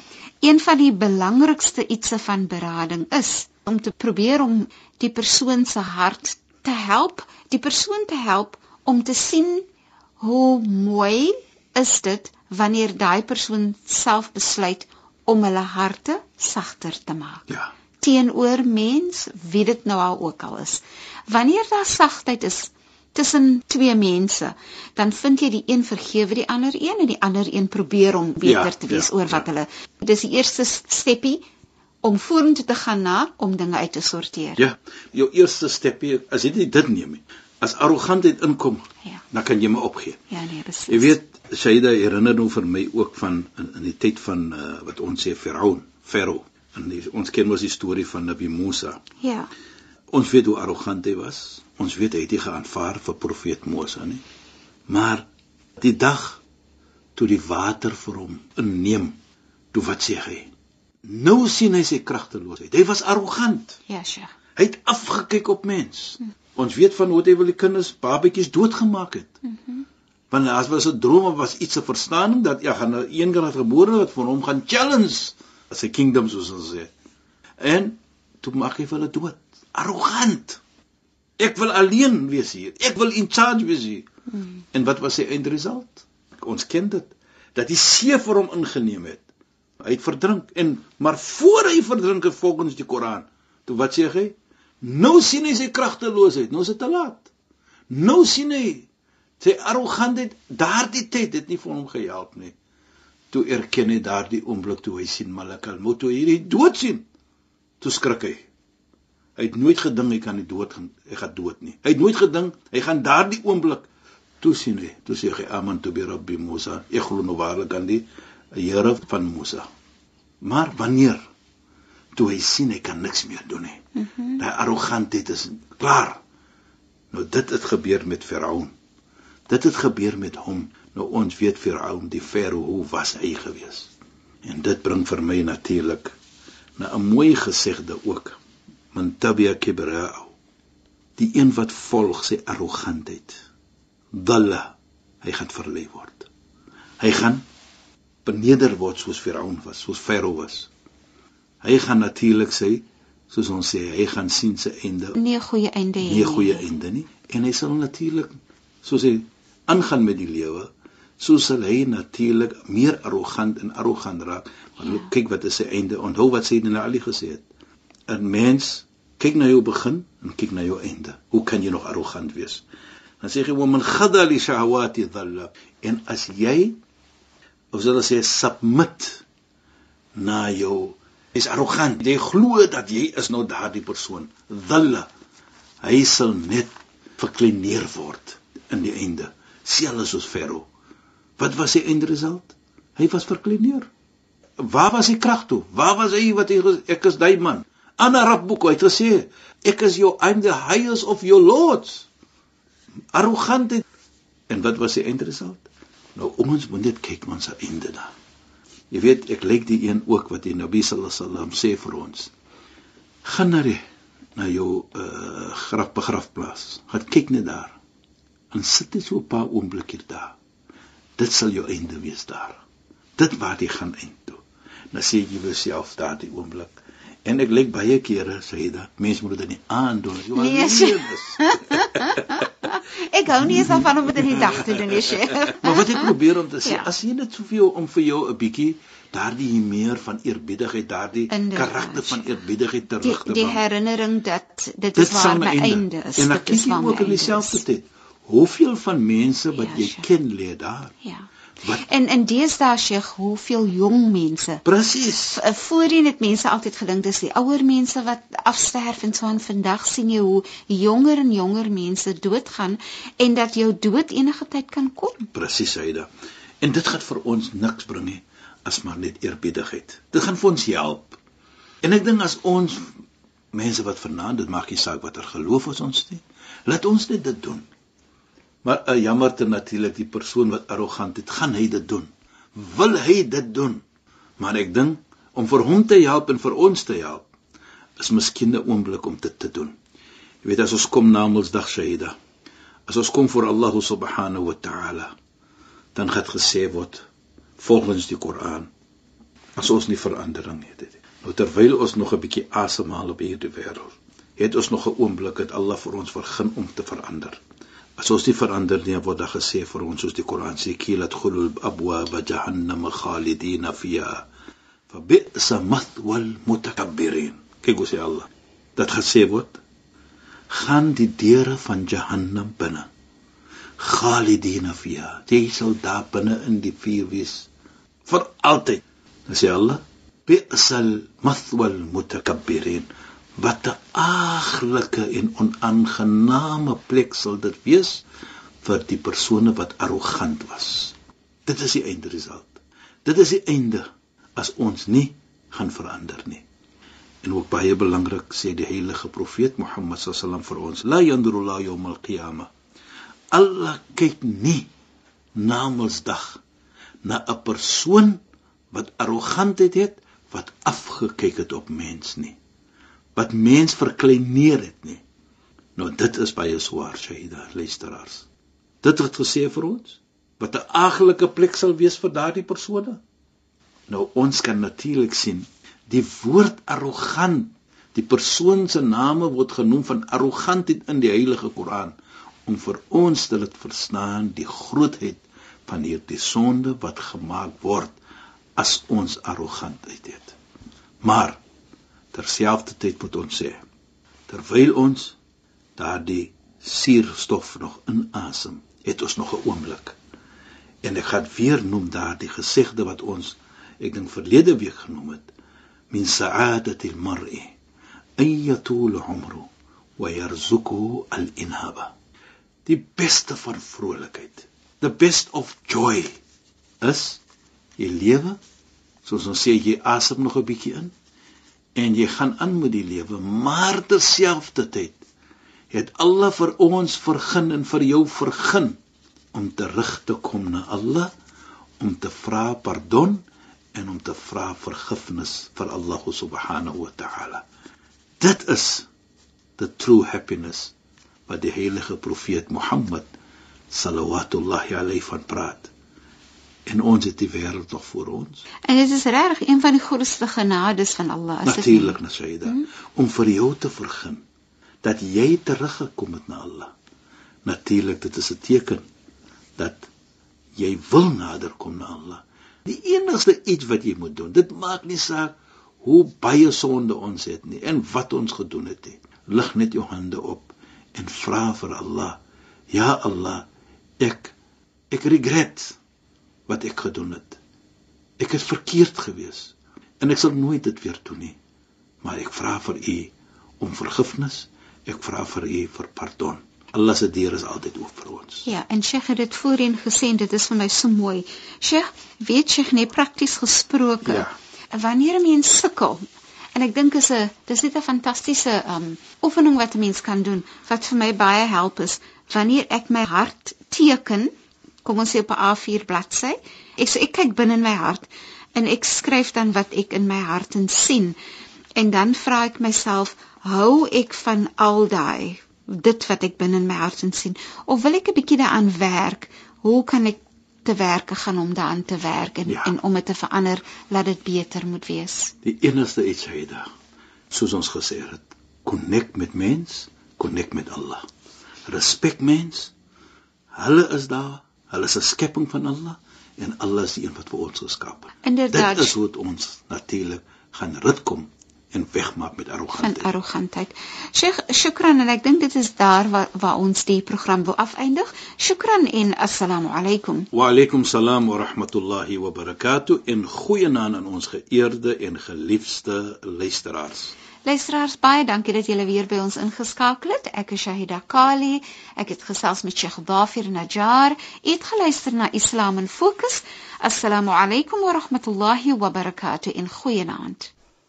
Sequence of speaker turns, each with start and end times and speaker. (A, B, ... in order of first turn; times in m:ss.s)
0:00.4-0:09.6 A
0:10.2-0:17.5 A
0:18.0-0:31.4 A
0:28.4-0:29.4 B
0:32.0-0:34.6 A
0:34.6-0:40.2 B
0:40.3-0:41.2 A
0:40.9-0:49.0 B
0:49.2-0:49.5 A
0:50.1-0:54.2 B
0:54.9-0:55.3 B
0:55.8-0:56.4 B
0:57.2-0:59.2 B
0:59.7-1:00.5 B
1:01.0-1:03.8 B
1:03.9-1:04.3 A
1:04.6-1:09.3 B
1:09.5-1:09.8 A
1:10.3-1:16.9 B
1:17.6-1:20.6 B
1:21.4-1:24.1 B
1:24.7-1:29.2 B
1:29.8-1:37.3 B
1:37.9-1:38.9 B
1:39.4-1:42.5 B
1:43.3-1:47.0 B
1:47.8-1:48.4 B
1:49.4-1:53.9 B
1:54.4-1:59.7 B
2:00.4-2:01.2 B
2:02.1-2:03.8 B
2:04.0-2:04.4 A
2:04.4-2:06.2 B
2:07.1-2:08.7 B
2:09.5-2:13.9 B
2:14.4-2:16.1 B
2:16.8-2:18.4 B
2:18.9-2:20.3 B
2:21.2-2:23.4 B
2:24.1-2:26.3 B
2:27.0-2:27.4 B
2:28.2-2:30.7 B
2:31.6-2:35.2 B
2:35.2-2:36.6 A
2:36.0-2:40.7 B
2:41.2-2:47.4 B
2:48.1-2:52.6 B
2:53.2-2:56.8 B
2:57.7-2:59.2 B
3:00.2-3:05.1 B
3:05.8-3:10.7 B
3:11.4-3:13.9 B
3:14.6-3:22.1 B
3:23.1-3:23.8 B
3:24.5-3:28.1 B
3:28.9-3:32.3 B
3:33.2-3:33.8 B
3:34.4-3:37.8 B
3:38.5-3:40.4 B
3:41.2-3:42.6 B
3:43.2-3:44.4 B
3:44.9-3:52.2 B
3:50.3-3:56.1 A
3:53.5-3:53.8 B
3:54.4-3:55.0 B
3:55.6-4:03.6 B
4:01.3-4:02.3 A
4:03.0-4:07.6 A
4:04.9-4:10.9 B
4:09.5-4:10.0 A
4:11.0-4:14.6 A
4:14.6-4:15.4 B
4:15.3-4:25.3 A
4:25.3-4:26.1 B
4:26.6-4:31.2 B
4:31.8-4:32.9 B
4:33.5-4:37.6 B
4:38.6-4:43.8 B
4:44.4-4:47.3 B
4:48.0-4:49.7 B
4:50.4-4:52.1 B
4:52.9-4:55.1 B
4:55.9-4:57.0 B
4:57.6-4:58.7 B
4:59.6-5:07.4 B
5:08.0-5:14.2 B
5:14.9-5:19.6 B
5:20.5-5:22.9 B
5:23.8-5:27.5 B
5:28.0-5:38.0 B
5:38.6-5:46.4 B
5:47.2-5:52.5 B
5:53.3-5:54.7 B
5:55.4-5:56.4 B
5:57.0-5:58.2 B
5:58.7-6:02.4 B
6:03.1-6:05.0 B
6:05.8-6:08.3 B
6:08.8-6:13.0 B
6:13.9-6:28.0 B
6:28.6-6:30.4 B
6:31.0-6:31.4 B
6:32.1-6:33.6 B
6:34.3-6:35.2 B
6:35.8-6:40.0 B
6:40.8-6:45.3 B
6:45.9-6:47.5 B
6:48.2-6:51.9 B
6:52.6-6:56.2 B
6:56.8-6:57.2 B
6:57.8-6:58.4 B
6:59.0-7:00.9 B
7:01.7-7:05.0 B
7:05.7-7:08.8 B
7:09.3-7:11.1 B
7:11.8-7:17.4 B
7:18.2-7:18.9 B
7:19.6-7:20.7 B
7:21.3-7:23.1 B
7:23.7-7:25.7 B
7:26.7-7:28.4 B
7:28.7-7:32.6 A
7:31.4-7:34.2 B
7:34.8-7:36.7 B
7:37.4-7:38.8 B
7:39.6-7:39.9 B
7:40.6-7:52.2 B
7:52.7-7:53.5 B
7:54.0-7:54.3 B
7:54.9-7:55.8 B
7:56.5-7:57.4 B
7:58.2-8:01.4 B
8:02.0-8:08.4 B
8:08.4-8:16.0 A
8:14.0-8:14.3 B
8:16.5-8:24.3 A
8:24.8-8:31.2 A
8:31.8-8:45.3 A
8:42.5-8:42.7 B
8:45.4-8:46.7 B
8:47.3-8:51.0 B
8:51.7-8:52.7 B
8:53.5-9:03.1 B
8:58.2-8:59.0 A
9:02.7-9:10.3 A
9:10.3-9:17.1 B
9:17.4-9:30.5 A